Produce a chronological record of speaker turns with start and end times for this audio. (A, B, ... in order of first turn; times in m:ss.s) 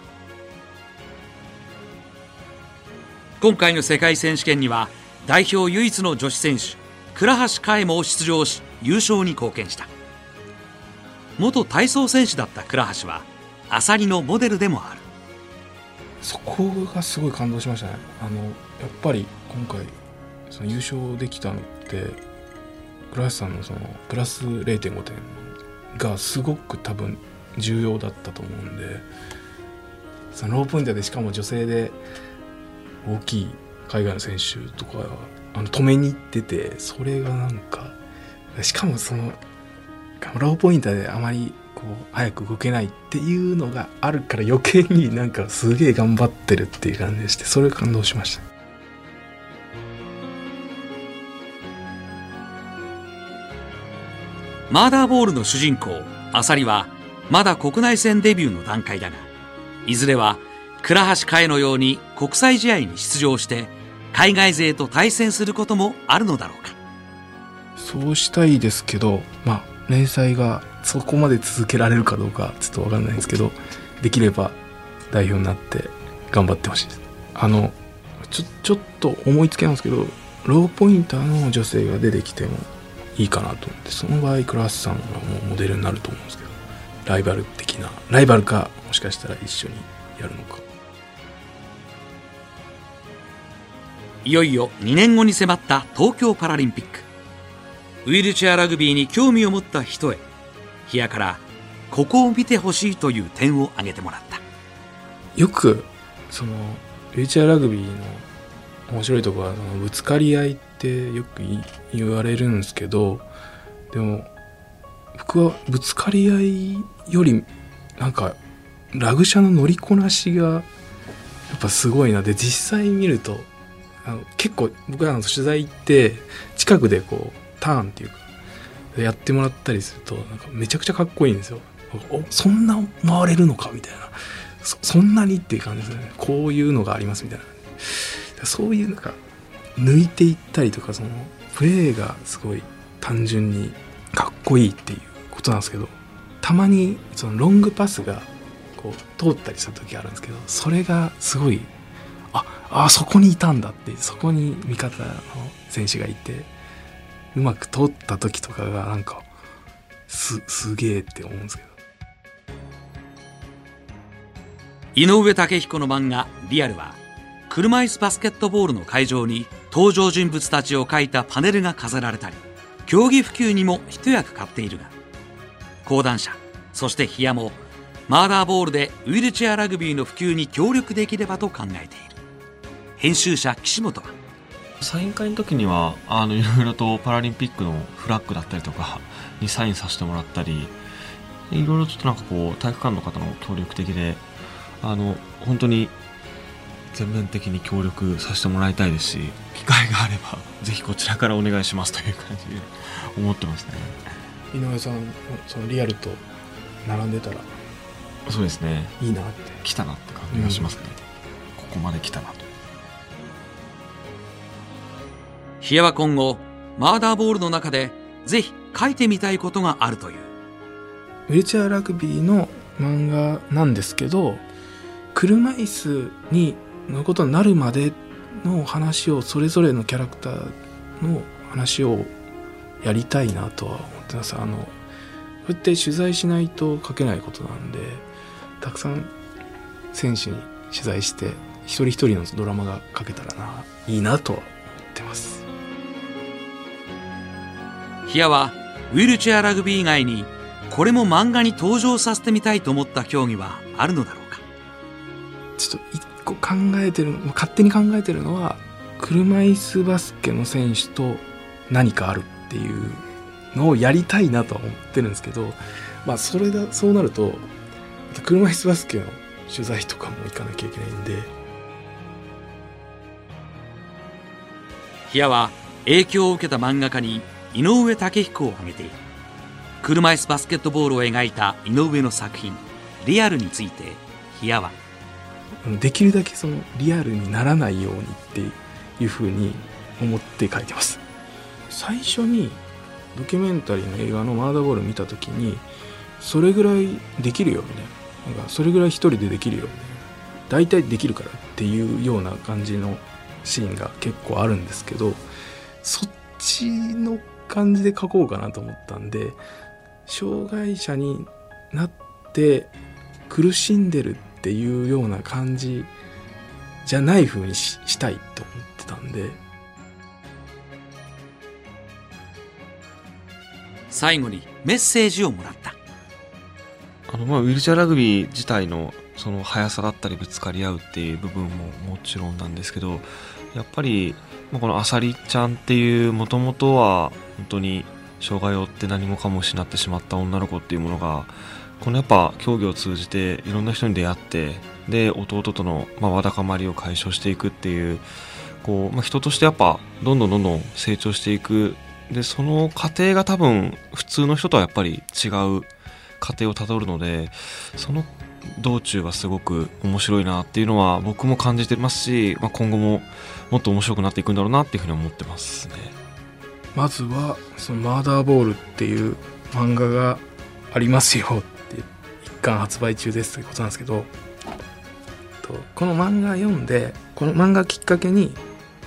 0:03.4-0:09.9 A
0:11.4-0:15.0 A
0:16.2-0:19.9 B
0:20.5-0:22.2 B
0:23.1-0:29.1 B
0:30.3-0:32.0 B
0:33.0-0:38.0 B
0:38.5-0:39.4 B
0:40.2-0:48.4 B
0:54.7-0:59.3 A
0:59.8-1:06.8 A
1:07.8-1:30.6 B
1:34.2-1:37.1 A
1:38.0-1:40.2 A
1:40.9-1:44.4 A
1:45.4-1:48.3 B
1:48.9-1:53.3 B
1:53.9-1:54.3 B
1:55.1-1:58.4 B
1:58.9-2:00.7 B
2:01.5-2:03.5 B
2:04.0-2:08.2 B
2:08.9-2:19.2 B
2:19.8-2:31.7 B
2:32.3-2:36.5 B
2:37.3-2:39.2 B
2:40.1-2:41.7 B
2:44.9-2:54.9 A
2:55.8-2:57.6 A
2:58.1-3:02.2 A
3:03.0-3:04.1 A
3:04.8-3:10.7 C
3:11.5-3:14.2 C
3:14.8-3:15.9 C
3:16.9-3:24.0 C
3:24.5-3:26.2 B
3:26.8-3:27.5 B
3:28.2-3:29.0 C
3:29.0-3:29.6 B
3:29.6-3:31.0 C
3:30.3-3:30.7 B
3:31.6-3:32.5 C
3:35.6-3:40.3 A
3:41.3-3:44.4 B
3:45.1-3:52.1 B
3:52.8-3:54.7 B
3:55.4-3:58.0 B
3:58.6-3:59.1 B
3:59.9-4:05.4 B
4:08.1-4:14.4 A
4:15.6-4:27.5 B
4:28.1-4:31.3 B
4:35.1-4:39.0 A
4:39.8-4:44.8 A
4:45.6-4:51.0 B
4:51.7-4:52.6 B
4:53.1-4:55.6 B
4:56.2-5:05.2 B
5:05.8-5:09.4 B
5:10.0-5:12.7 B
5:13.3-5:15.9 B
5:16.8-5:19.4 B
5:23.9-5:25.8 A
5:27.1-5:48.0 C
5:48.6-5:55.7 C
5:56.2-6:05.9 C
6:06.7-6:14.1 B
6:15.4-6:18.4 B